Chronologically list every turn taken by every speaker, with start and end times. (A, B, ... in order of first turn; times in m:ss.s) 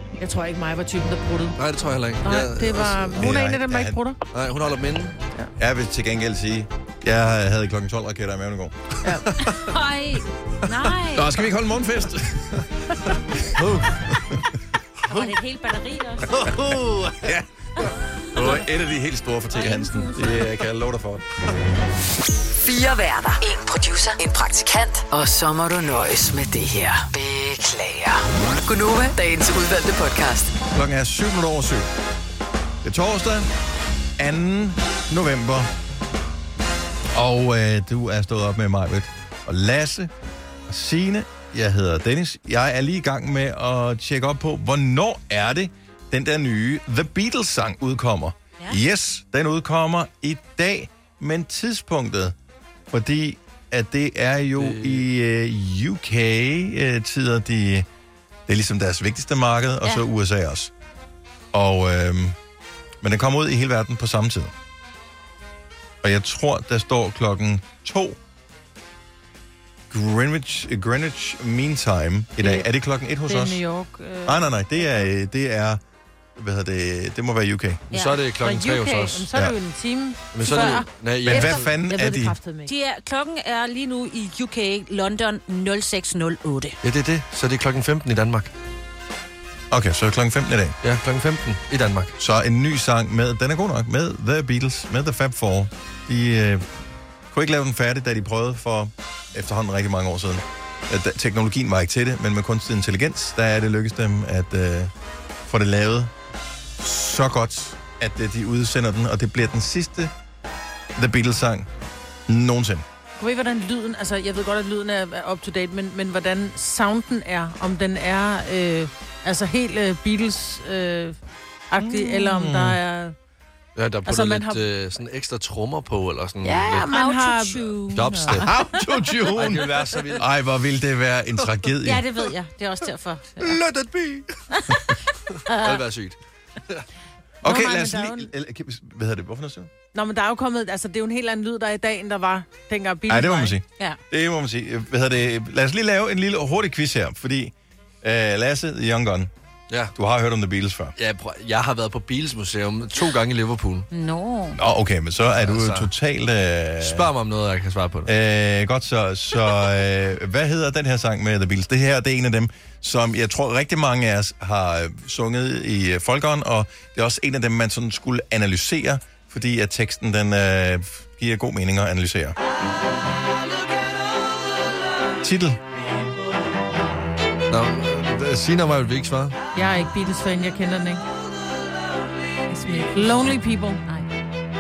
0:00.2-0:01.6 A
0:01.6-0:03.2 B
0:02.2-0:04.2 A
0:03.2-0:04.0 C
0:04.3-0:05.2 B
0:05.6-0:08.9 C
0:09.0-0:09.3 A
0:09.5-0:11.4 D
0:11.1-0:12.7 C
0:13.4-0:14.4 C
0:13.6-0:14.0 B
0:15.1-0:16.4 D
0:16.3-0:17.2 B
0:17.2-0:17.5 C
0:18.3-0:21.3 C
0:19.5-0:20.4 D
0:22.6-0:30.6 E
0:30.7-0:31.9 C
0:32.8-0:33.5 C
0:34.2-0:35.7 C
0:37.1-0:40.1 C
0:40.7-0:52.4 C
0:52.9-0:57.9 C
0:54.6-0:55.0 B
0:58.5-1:00.7 C
1:01.5-1:02.4 C
1:03.0-1:04.5 C
1:06.0-1:08.2 C
1:09.9-1:13.6 C
1:12.4-1:12.7 A
1:13.3-1:15.0 A
1:14.3-1:15.8 C
1:16.4-1:17.8 C
1:17.9-1:18.2 D
1:17.9-1:19.3 B
1:18.4-1:22.7 A
1:20.3-1:21.7 B
1:20.5-1:20.8 D
1:21.2-1:22.4 C
1:22.7-1:26.8 D
1:26.8-1:28.5 B
1:29.7-1:30.8 C
1:30.8-1:32.2 B
1:32.2-1:36.7 C
1:37.3-1:44.9 C
1:45.5-1:46.1 C
1:46.8-1:50.1 C
1:51.0-1:51.7 C
1:52.3-1:52.8 C
1:53.2-2:01.2 A
2:01.7-2:03.2 A
2:01.8-2:02.8 C
2:03.8-2:06.9 B
2:04.1-2:04.6 A
2:06.4-2:08.2 A
2:06.9-2:08.6 D
2:07.9-2:08.5 B
2:08.3-2:12.0 C
2:09.3-2:10.3 B
2:11.8-2:13.6 D
2:13.4-2:14.4 B
2:15.3-2:16.2 B
2:15.5-2:15.8 D
2:17.4-2:19.7 C
2:17.4-2:18.3 A
2:19.9-2:23.6 A
2:23.1-2:29.3 C
2:30.0-2:30.9 C
2:31.0-2:33.9 B
2:33.9-2:34.6 D
2:34.6-2:37.1 C
2:35.4-2:35.9 B
2:36.8-2:38.1 B
2:38.0-2:52.4 C
2:55.2-2:55.6 C
2:57.5-2:59.4 B
2:59.6-3:01.0 A
3:02.5-3:03.8 A